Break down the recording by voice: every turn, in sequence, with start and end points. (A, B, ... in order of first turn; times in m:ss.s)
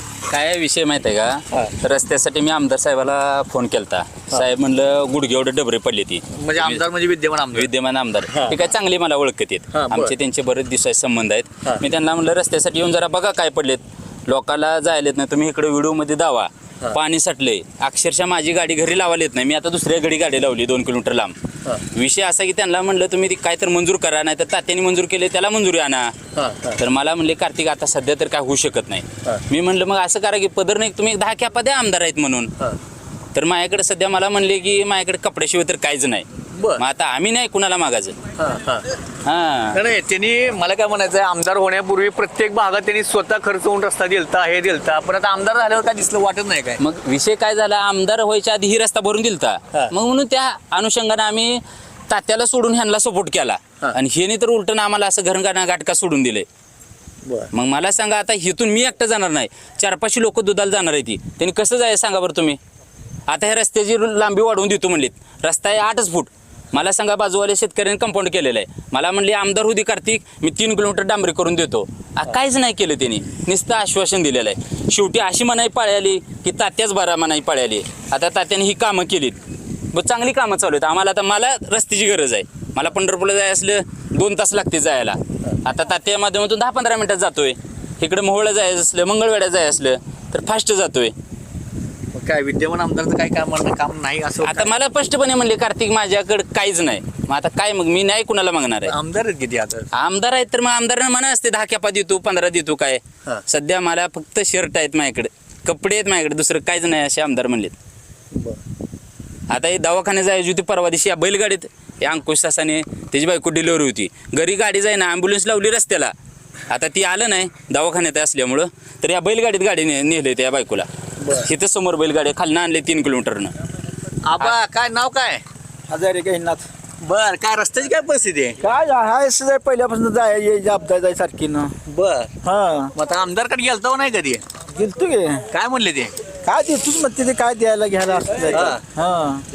0:00.3-0:06.8 A
0:06.4-0:07.7 B
0:07.5-0:21.3 A
0:08.3-0:08.6 B
0:09.7-0:10.1 B
0:21.9-0:26.1 A
0:26.3-0:26.8 B
0:26.8-0:32.5 A
0:33.3-0:36.2 A
0:36.6-0:36.8 B
0:36.8-0:38.2 A
0:38.4-0:38.8 B
0:39.2-0:39.8 A
0:39.7-0:46.8 B
0:46.8-0:56.4 A
0:57.2-0:57.5 B
0:57.5-1:02.6 A
1:03.3-1:19.4 A
1:19.9-1:31.1 A
1:32.1-1:34.7 B
1:34.4-1:38.9 A
1:38.8-1:39.9 B
1:39.9-1:47.7 A
1:48.3-1:48.6 B
1:49.5-1:56.1 A
1:56.7-2:00.9 A
2:01.2-2:01.5 B
2:01.4-2:03.5 A
2:04.2-2:05.4 B
2:05.9-2:06.6 C
2:07.0-2:08.6 B
2:08.6-2:11.7 C
2:11.9-2:12.4 B
2:12.5-2:12.8 C
2:12.9-2:14.4 B
2:14.8-2:15.4 C
2:15.5-2:16.1 B
2:16.4-2:19.4 C
2:18.5-2:18.8 B